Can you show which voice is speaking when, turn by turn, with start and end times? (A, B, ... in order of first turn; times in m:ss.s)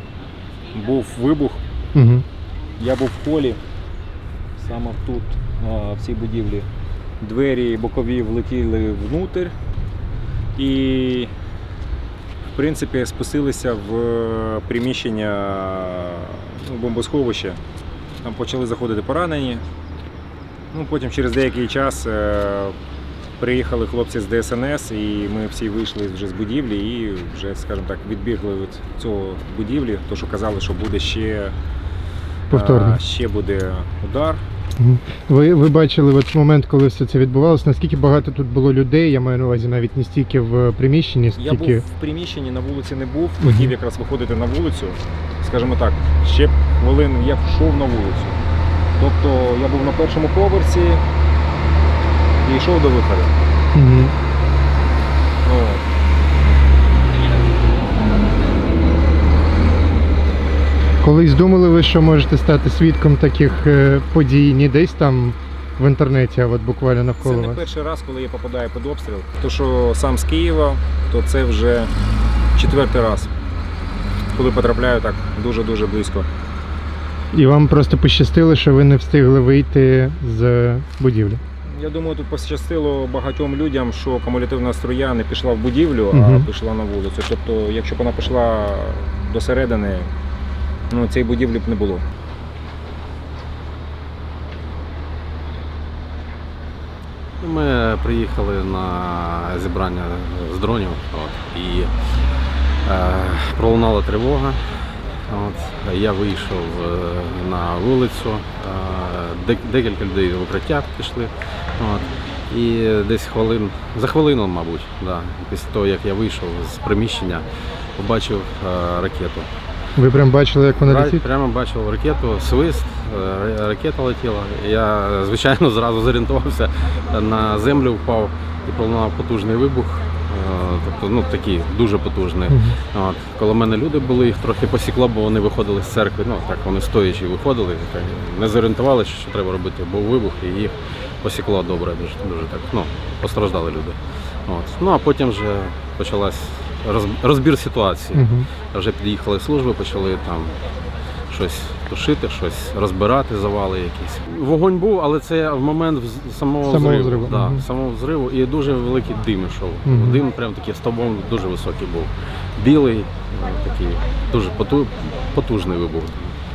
0:00.7-0:01.6 A
0:01.9-0:02.2 B
0:02.8-0:03.6 A
0:04.6-0:06.7 A
0:07.2-0:09.5 A
0:10.6-0:11.3 A
0:12.6-0:17.6 A
0:18.2-0:19.6 A
0:20.7-0:22.8 A
0:23.4-0:31.6 A
0:32.5-0:34.4 A
0:32.5-0:33.0 B
0:34.8-0:41.8 B
0:41.4-0:48.4 A
0:43.4-0:43.7 B
0:49.0-0:51.0 A
0:52.4-0:53.3 A
0:53.7-0:54.1 B
0:55.4-0:55.8 A
1:01.0-1:07.6 B
1:07.2-1:11.9 A
1:12.5-1:13.3 A
1:14.3-1:16.3 A
1:17.3-1:21.4 B
1:21.7-1:30.1 A
1:26.1-1:26.5 B
1:30.9-1:32.0 A
1:37.4-1:42.3 C
1:42.8-1:59.5 C
2:00.0-2:01.2 B
2:00.8-2:30.6 C
2:12.5-2:12.7 B
2:28.1-2:28.5 B
2:31.3-2:46.4 C
2:36.6-2:37.7 B
2:39.8-2:40.2 B